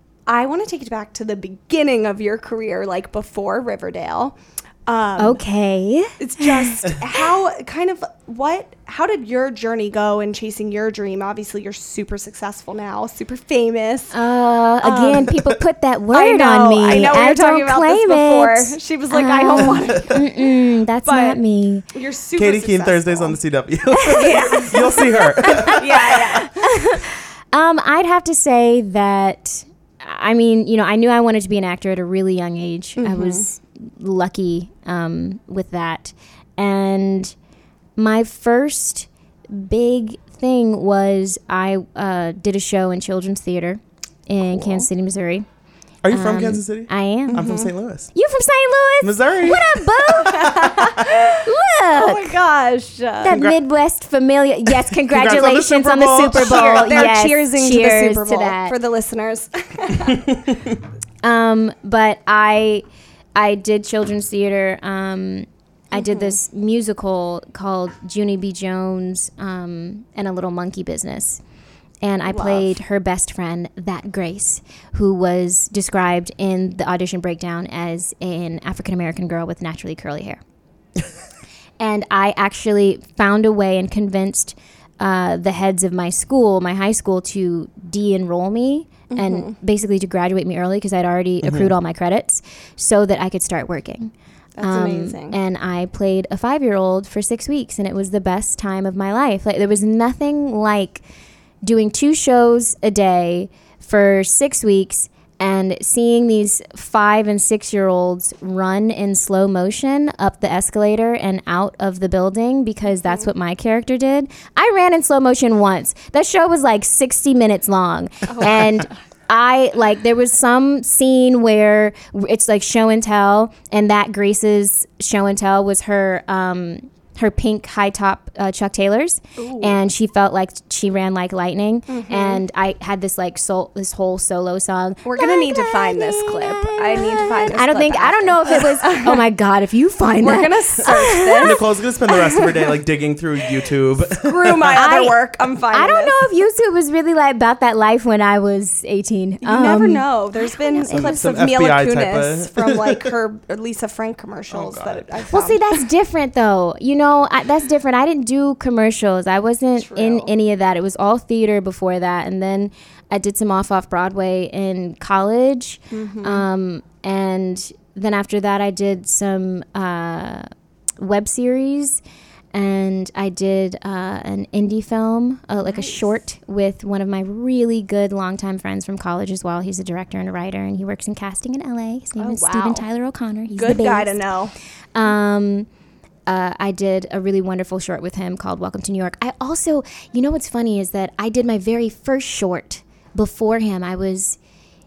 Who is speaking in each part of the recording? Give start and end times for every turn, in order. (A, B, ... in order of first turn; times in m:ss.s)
0:00.3-0:05.4 A
0:05.2-0:06.7 B
0:06.2-0:14.2 A
0:14.1-0:21.8 B
0:14.8-0:15.3 A
0:16.1-0:20.4 A
0:19.6-0:20.0 C
0:21.0-0:21.4 A
0:21.9-0:23.4 A
0:22.4-0:26.1 C
0:23.9-0:25.7 B
0:24.1-0:26.7 A
0:26.6-0:37.3 B
0:33.0-0:33.5 A
0:38.0-0:45.4 B
0:44.6-0:44.9 C
0:46.0-0:48.1 C
0:46.1-0:47.4 B
0:47.3-0:47.7 A
0:48.1-0:50.7 B
0:49.0-0:51.0 C
0:50.2-0:53.4 A
0:51.4-0:52.4 B
0:53.2-0:58.8 B
0:53.3-0:53.6 C
0:54.9-0:57.0 C
0:56.4-1:00.2 A
1:00.1-1:00.7 C
1:01.2-1:02.8 B
1:03.4-1:11.4 B
1:05.9-1:06.4 A
1:12.0-1:20.4 B
1:12.2-1:12.8 A
1:21.8-1:41.0 B
1:29.1-1:29.6 A
1:31.4-1:31.7 C
1:34.6-1:35.4 A
1:41.6-2:21.6 B
1:52.9-1:53.3 A
1:58.3-1:58.8 A
2:09.4-2:09.8 A
2:11.9-2:12.4 A
2:15.0-2:19.3 A
2:20.2-2:21.6 A
2:21.4-2:24.8 C
2:22.1-2:22.4 A
2:24.2-2:26.2 A
2:24.7-2:25.2 B
2:25.7-2:31.3 B
2:29.4-2:35.8 A
2:30.9-2:33.1 C
2:34.5-2:35.3 C
2:35.3-2:50.5 B
2:39.8-2:40.3 A
2:45.9-2:46.4 A
2:51.0-2:52.0 B
2:52.5-3:04.2 B
2:55.6-2:56.1 A
3:02.2-3:02.9 A
3:03.5-3:04.5 A
3:05.0-3:05.7 B
3:06.3-3:14.4 B